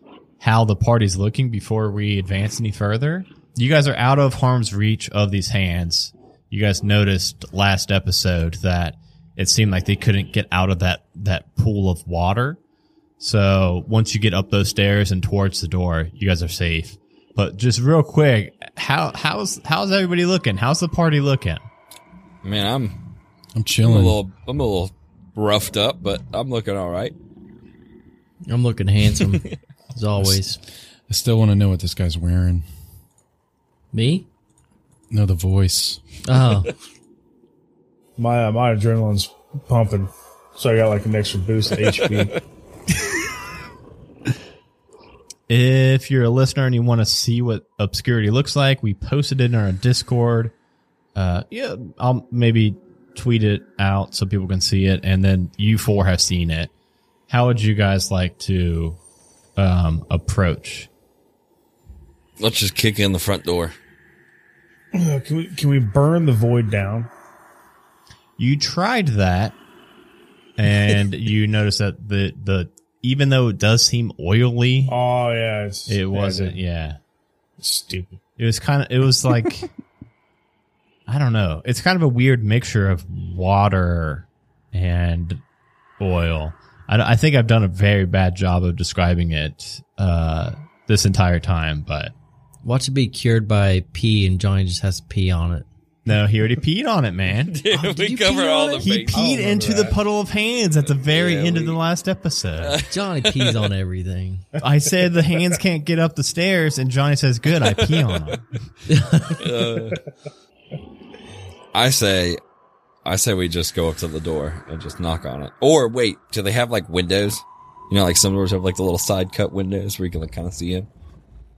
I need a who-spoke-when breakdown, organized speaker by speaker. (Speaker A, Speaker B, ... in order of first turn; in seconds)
Speaker A: 0.4-12.6, 13.2-21.7, 45.5-50.5, 51.1-56.7, 57.3-59.0, 59.6-60.9, 68.4-69.6, 70.6-75.0, 75.9-77.0, 78.4-79.7, 81.1-85.4, 86.0-92.1, 96.1-97.6, 98.8-102.8, 104.6-108.5
Speaker B: 22.4-23.0, 23.8-27.1, 62.4-63.8, 97.5-99.2, 100.9-101.8, 102.6-103.7, 107.8-108.3, 109.4-110.0, 111.7-112.4, 113.0-120.9
Speaker C: 23.6-24.2, 30.2-30.4, 31.1-32.7, 35.1-36.0
Speaker D: 28.5-30.6, 33.9-34.3, 36.3-36.7, 92.6-95.7, 97.7-99.1, 102.9-104.5, 108.9-109.7
Speaker E: 38.2-42.4, 64.9-67.1, 74.9-76.6, 77.6-78.2, 99.1-100.0